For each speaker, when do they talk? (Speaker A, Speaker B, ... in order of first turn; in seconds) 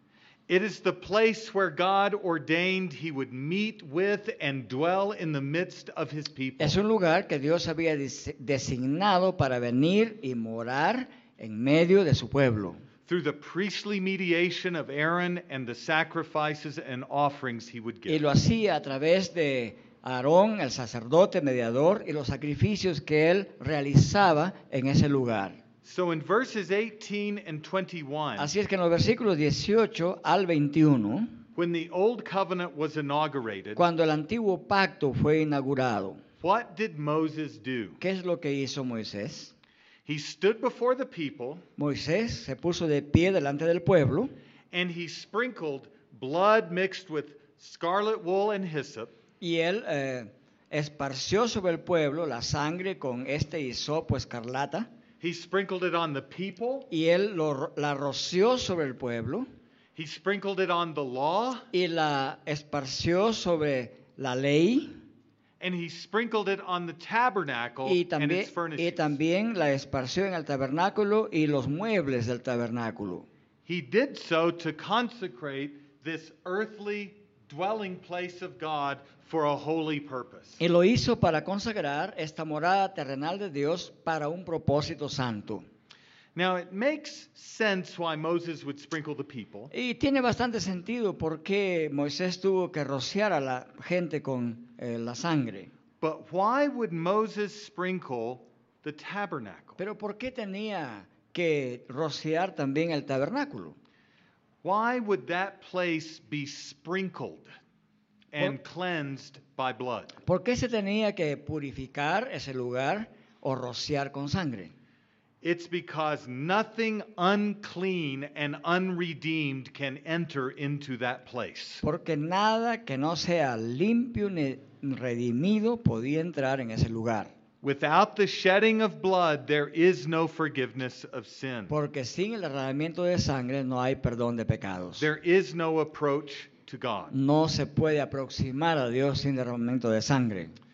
Speaker A: 0.5-6.8, 13.1-18.3, 25.8-28.5, 31.6-33.9, 36.4-38.0, 40.1-41.6, 44.7-49.1, 55.2-56.9, 60.0-61.7, 65.6-69.2, 73.7-80.6, 86.3-89.7, 96.0-99.8, 104.6-107.5, 108.3-110.1, 115.4-121.8, 127.6-131.7, 135.0-137.2
Speaker B: 6.6-12.8, 18.1-25.6, 28.4-31.4, 33.8-36.2, 38.0-39.5, 41.8-44.3, 49.4-54.9, 56.9-59.5, 61.7-65.0, 67.8-73.3, 80.6-85.7, 89.7-95.7, 99.8-103.8, 110.2-114.7, 121.8-127.3, 131.7-135.1, 137.1-140.6